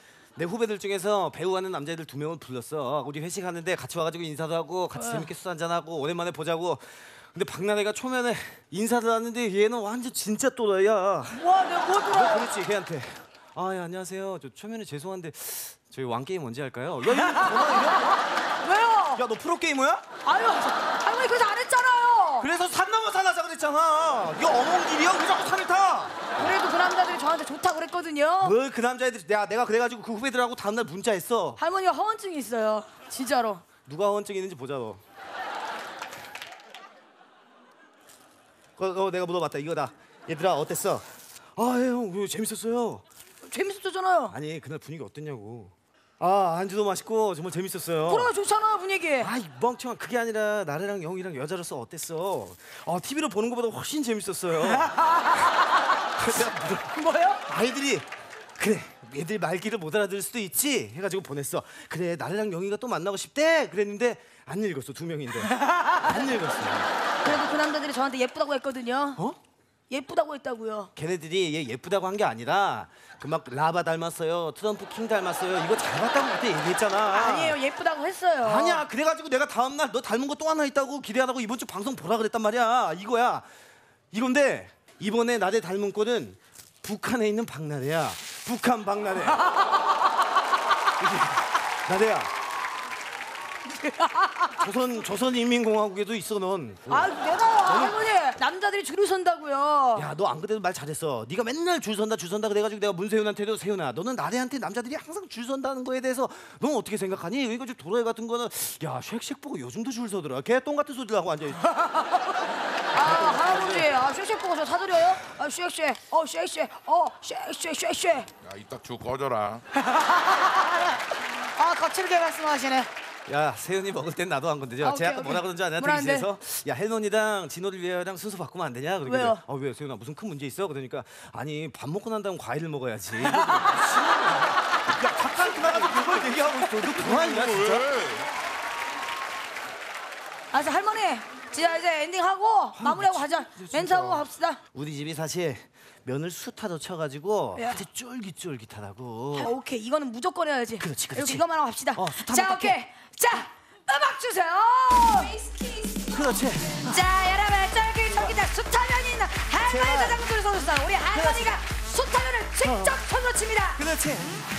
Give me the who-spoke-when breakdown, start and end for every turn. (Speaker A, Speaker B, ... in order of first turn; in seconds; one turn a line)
Speaker A: 0.4-11.4
Speaker B: 5.0-5.3
Speaker B: 11.3-12.5
Speaker A: 12.1-18.1
Speaker B: 17.1-19.2
Speaker A: 19.2-20.0
Speaker B: 20.2-22.5
Speaker A: 22.4-26.1
Speaker B: 26.4-28.6
Speaker A: 28.4-31.6
Speaker B: 31.6-33.6
Speaker A: 33.9-35.0
Speaker A: 38.8-43.0
Speaker B: 43.4-44.4
Speaker A: 44.3-48.3
Speaker B: 48.1-49.3
Speaker A: 49.2-54.9
Speaker B: 54.6-55.4
Speaker A: 56.2-56.9
Speaker B: 56.9-57.4
Speaker A: 57.5-58.0
Speaker A: 58.6-67.3
Speaker B: 65.6-66.2
Speaker B: 67.2-69.2
Speaker B: 69.9-70.9
Speaker A: 71.0-77.6
Speaker B: 77.1-78.8
Speaker A: 78.4-83.5
Speaker A: 84.1-89.5
Speaker A: 91.0-92.3
Speaker B: 93.8-94.5
Speaker A: 94.6-98.0
Speaker B: 96.9-100.1
Speaker A: 100.0-111.7
Speaker B: 112.9-118.3
Speaker A: 112.9-113.9
Speaker C: 118.4-119.6
Speaker B: 120.0-120.6
Speaker B: 121.6-122.9
Speaker A: 123.3-134.3
Speaker B: 124.8-126.3
Speaker B: 129.1-129.4
Speaker A: 135.0-137.9
Speaker C: 137.2-138.3
Speaker B: 140.5-144.6
Speaker A: 142.8-149.5
Speaker B: 147.6-147.8
Speaker B: 149.3-155.4
Speaker A: 150.8-152.8
Speaker B: 156.1-163.8
Speaker A: 156.1-157.0
Speaker A: 158.1-158.3
Speaker A: 159.7-160.2
Speaker A: 161.1-161.6
Speaker A: 162.6-163.0
Speaker A: 163.8-164.4